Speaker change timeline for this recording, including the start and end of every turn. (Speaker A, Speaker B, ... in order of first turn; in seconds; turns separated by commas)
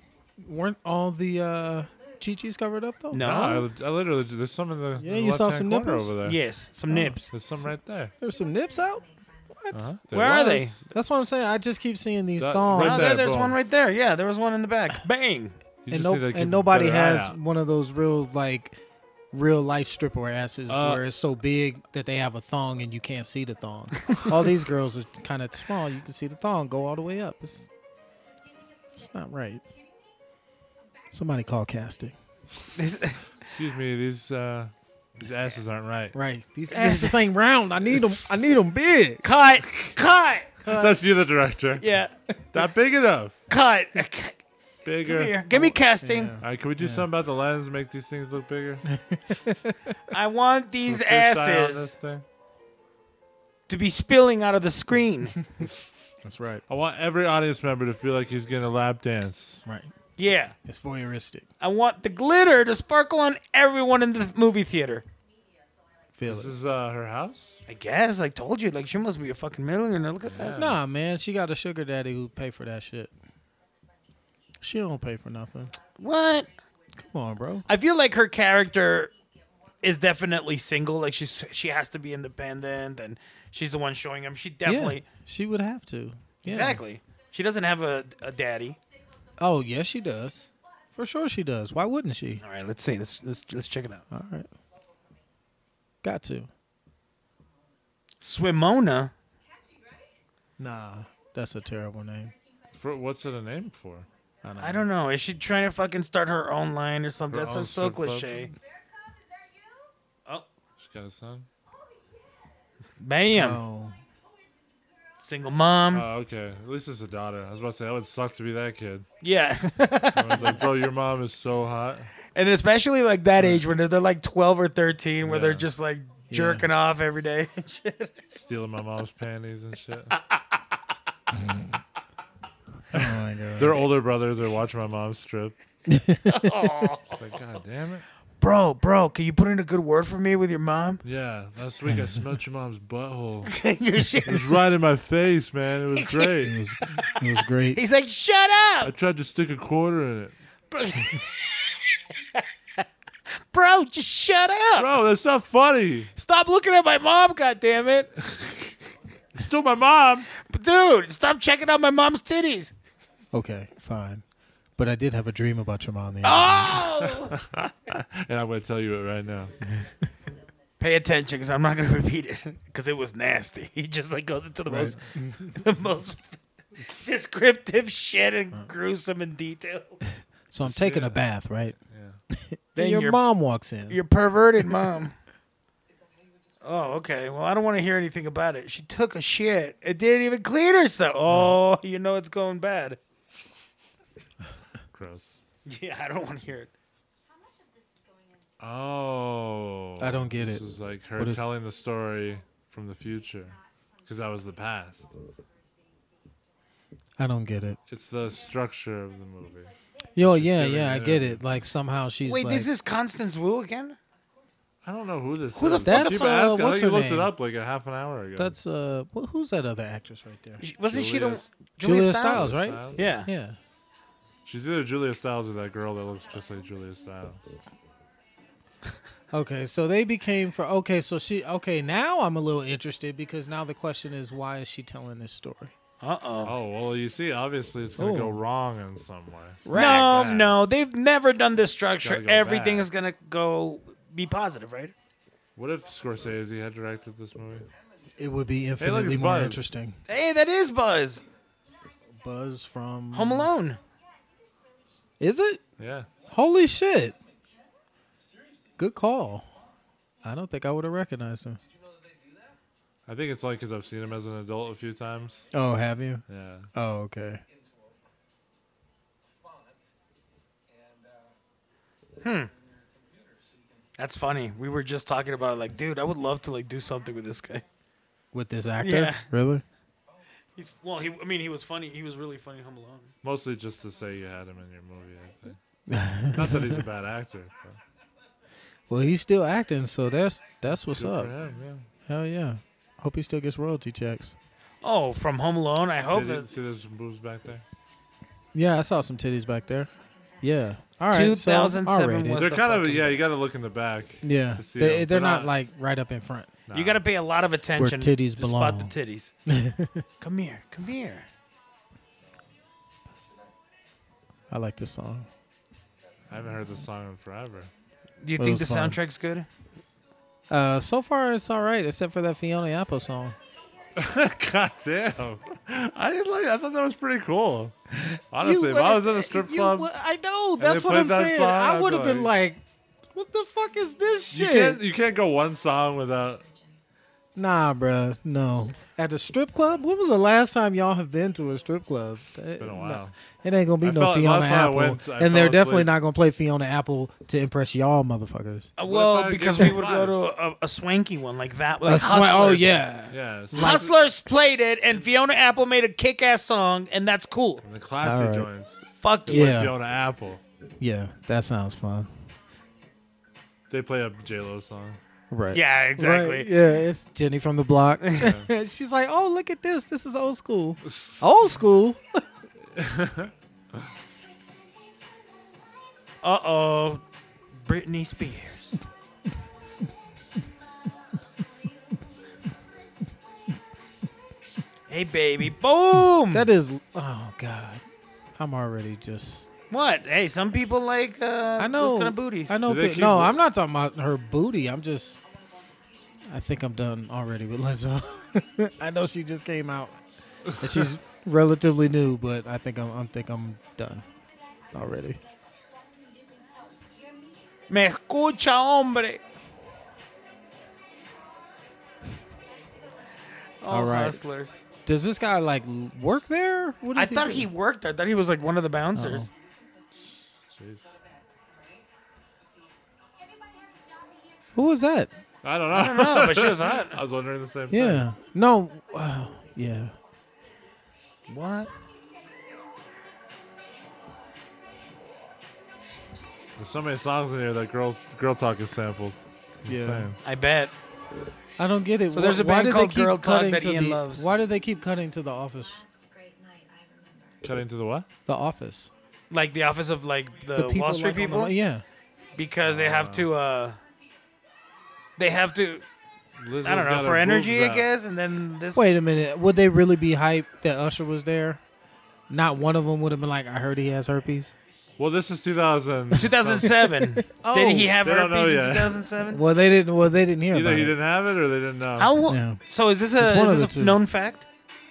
Speaker A: 0.4-3.3, Speaker B: 3.1-3.7, Speaker C: 3.2-6.4, Speaker A: 5.0-6.2, Speaker B: 6.2-7.2, Speaker A: 6.9-7.2, Speaker C: 7.3-8.1, Speaker D: 8.2-9.5, Speaker A: 8.2-9.9, Speaker C: 9.7-10.8, Speaker B: 10.1-10.7, Speaker A: 10.9-13.3, Speaker C: 12.4-13.6, Speaker B: 12.7-15.6, Speaker C: 15.9-17.4, Speaker A: 15.9-18.8, Speaker A: 19.3-27.6, Speaker C: 20.7-21.0, Speaker D: 28.3-29.1, Speaker A: 29.0-29.6, Speaker D: 29.7-30.1, Speaker A: 31.1-32.1, Speaker B: 32.7-33.2, Speaker C: 33.4-36.1, Speaker A: 36.1-39.2, Speaker B: 36.7-37.2, Speaker B: 39.2-40.5, Speaker C: 39.6-40.0, Speaker A: 40.6-41.0, Speaker C: 40.6-41.8, Speaker B: 41.8-42.1, Speaker C: 42.5-43.4, Speaker B: 43.5-44.4, Speaker C: 44.9-45.6, Speaker B: 45.0-46.4, Speaker A: 45.5-47.1, Speaker C: 46.4-48.8, Speaker A: 48.9-49.8, Speaker B: 50.1-51.9, Speaker C: 50.9-52.2, Speaker B: 53.7-55.4, Speaker A: 56.2-56.6, Speaker C: 56.7-59.6, Speaker A: 59.6-59.9, Speaker B: 60.2-60.5, Speaker A: 60.6-61.5, Speaker B: 61.6-65.0, Speaker D: 65.2-66.1, Speaker A: 66.1-66.5, Speaker C: 66.3-67.6, Speaker B: 67.7-70.6, Speaker C: 70.3-70.8, Speaker A: 70.5-73.1, Speaker D: 73.7-74.1, Speaker A: 74.6-75.7, Speaker B: 76.0-76.5, Speaker A: 77.0-77.6, Speaker B: 77.7-79.1, Speaker D: 79.2-79.9, Speaker B: 79.8-85.0, Speaker A: 84.6-86.8, Speaker B: 86.4-88.8, Speaker D: 88.3-89.3, Speaker A: 89.4-90.4, Speaker D: 90.0-90.5, Speaker A: 90.9-92.4, Speaker B: 92.4-94.0, Speaker A: 94.1-94.5, Speaker A: 96.0-96.5, Speaker B: 98.2-99.1, Speaker D: 99.4-100.2, Speaker A: 100.6-102.3, Speaker D: 102.2-102.8, Speaker C: 102.7-104.1, Speaker A: 104.4-104.9, Speaker B: 104.6-108.5, Speaker C: 107.3-108.3, Speaker D: 108.6-109.9, Speaker C: 110.8-111.5, Speaker D: 111.9-112.1, Speaker B: 113.0-113.6, Speaker A: 113.3-114.0, Speaker B: 115.2-116.0, Speaker C: 115.9-119.1, Speaker B: 119.2-120.6, Speaker C: 120.1-122.1, Speaker B: 122.3-128.1, Speaker C: 125.2-125.7, Speaker A: 126.3-126.7, Speaker C: 128.3-130.2, Speaker B: 130.1-130.5, Speaker A: 131.3-131.8, Speaker A: 132.9-133.8, Speaker C: 132.9-135.6, Speaker A: 135.9-136.6, Speaker B: 136.3-137.4, Speaker C: 137.1-138.0, Speaker B: 138.4-141.0, Speaker C: 141.0-143.6, Speaker B: 143.5-144.6, Speaker C: 144.2-146.5, Speaker B: 145.9-146.3, Speaker A: 146.4-147.8, Speaker B: 147.7-148.9, Speaker C: 148.8-150.3, Speaker B: 150.7-152.8, Speaker B: 153.5-154.9, Speaker C: 154.8-156.1, Speaker B: 156.2-158.1, Speaker C: 158.2-158.7, Speaker C: 159.3-160.3, Speaker B: 160.4-162.7, Speaker A: 163.3-164.2, Speaker A: 164.8-166.8, Speaker B: 166.2-167.4, Speaker C: 167.3-169.5, Speaker B: 170.8-180.0, Speaker A: 174.7-175.5, Speaker A: 180.5-181.8, Speaker C: 180.6-181.2, Speaker C: 181.9-182.2, Speaker A: 182.3-184.0, Speaker B: 182.8-183.2, Speaker B: 183.9-185.1, Speaker B: 186.6-193.0, Speaker C: 194.9-195.4, Speaker B: 195.7-196.7, Speaker D: 197.2-198.6, Speaker C: 198.6-205.1, Speaker A: 200.0-201.4, Speaker D: 203.2-206.4, Speaker A: 207.2-207.8, Speaker C: 207.9-211.4, Speaker D: 209.1-210.1, Speaker A: 210.2-212.7, Speaker B: 212.2-214.0, Speaker D: 214.2-214.6, Speaker C: 214.8-218.5, Speaker B: 215.5-216.4, Speaker A: 215.8-217.3, Speaker A: 218.4-220.6, Speaker B: 220.6-223.3, Speaker C: 220.9-221.5, Speaker A: 221.8-223.6, Speaker C: 222.3-223.0, Speaker C: 224.4-227.4, Speaker A: 229.3-235.7, Speaker B: 236.0-236.5, Speaker C: 236.4-240.6, Speaker A: 238.0-238.4, Speaker A: 239.6-240.4, Speaker B: 239.7-244.9, Speaker C: 242.0-242.9, Speaker C: 245.6-247.7, Speaker A: 248.2-250.0, Speaker C: 248.8-249.7, Speaker B: 250.1-251.2, Speaker A: 252.2-253.5, Speaker B: 253.1-253.8, Speaker D: 254.1-254.5, Speaker A: 255.2-255.6, Speaker C: 255.8-256.1, Speaker A: 256.3-257.1, Speaker A: 258.8-259.5, Speaker A: 260.2-261.6, Speaker C: 263.1-265.5, Speaker A: 265.5-267.4, Speaker C: 266.3-266.7, Speaker B: 272.2-272.5, Speaker B: 274.0-277.6, Speaker A: 278.3-279.6, Speaker B: 278.8-279.3, Speaker B: 280.6-283.1, Speaker C: 283.2-285.6, Speaker A: 285.9-286.8, Speaker C: 286.3-287.8, Speaker A: 288.9-291.3, Speaker C: 290.9-291.9, Speaker A: 292.1-294.4, Speaker B: 294.8-296.5, Speaker C: 296.1-297.6, Speaker A: 298.5-299.9, Speaker D: 300.0-300.4, Speaker A: 300.4-302.4, Speaker B: 301.1-303.2, Speaker C: 302.4-305.5, Speaker A: 304.2-306.5, Speaker C: 306.7-307.0, Speaker B: 306.7-309.3, Speaker A: 307.8-308.9, Speaker A: 309.4-310.0, Speaker B: 310.2-311.3, Speaker A: 314.5-315.3, Speaker C: 316.3-317.7, Speaker B: 318.2-319.5, Speaker A: 318.4-319.0, Speaker A: 320.5-323.4, Speaker C: 323.9-327.7, Speaker A: 327.9-332.6, Speaker C: 328.3-329.9, Speaker C: 330.6-332.3, Speaker A: 333.1-334.8, Speaker C: 334.3-336.4, Speaker D: 336.4-336.8, Speaker A: 337.4-348.7, Speaker C: 342.6-343.1, Speaker C: 343.8-345.9, Speaker B: 348.8-352.8, Speaker C: 348.9-350.2, Speaker A: 351.8-353.9, Speaker C: 353.1-353.9, Speaker B: 353.5-357.6, Speaker C: 357.6-360.4, Speaker A: 358.0-358.5, Speaker B: 359.0-359.6, Speaker A: 359.3-359.7, Speaker A: 360.8-362.1, Speaker C: 363.7-365.0, Speaker A: 365.3-372.2, Speaker B: 365.5-366.5, Speaker C: 368.2-368.5, Speaker C: 370.9-371.2, Speaker C: 372.7-373.3, Speaker B: 376.2-377.0, Speaker B: 377.6-378.8, Speaker B: 384.9-386.5, Speaker A: 386.3-387.8, Speaker A: 388.4-389.5, Speaker B: 389.7-392.6, Speaker A: 391.6-395.2, Speaker C: 392.6-393.4, Speaker A: 396.3-400.0, Speaker A: 400.6-404.0, Speaker D: 404.0-407.6, Speaker A: 404.7-405.2, Speaker B: 407.7-409.2, Speaker D: 411.0-413.4, Speaker B: 413.6-414.6, Speaker A: 413.7-414.2, Speaker A: 414.9-417.5, Speaker B: 416.9-419.3, Speaker A: 418.9-419.3, Speaker D: 419.5-419.9, Speaker C: 420.0-420.9, Speaker D: 421.1-421.9, Speaker D: 422.5-425.1, Speaker A: 424.5-425.1, Speaker C: 425.4-428.0, Speaker B: 425.7-427.0, Speaker A: 427.7-429.9, Speaker B: 431.3-431.7, Speaker D: 432.2-433.4, Speaker C: 436.6-440.2, Speaker A: 439.6-440.1, Speaker B: 440.2-440.7, Speaker A: 441.6-445.8, Speaker B: 442.1-444.3, Speaker D: 445.6-447.4, Speaker C: 447.4-448.1, Speaker A: 448.3-448.9, Speaker B: 449.3-451.5, Speaker A: 450.5-451.9, Speaker B: 452.4-453.8, Speaker C: 452.6-453.3, Speaker B: 455.2-455.8, Speaker C: 456.4-457.9, Speaker B: 456.6-458.8, Speaker A: 458.7-461.6, Speaker A: 462.3-464.5, Speaker C: 465.0-466.8, Speaker B: 466.1-469.4, Speaker A: 466.8-467.9, Speaker C: 468.0-469.1, Speaker A: 469.3-470.9, Speaker C: 470.5-472.1, Speaker B: 472.0-474.4, Speaker A: 472.3-472.6, Speaker A: 473.2-474.0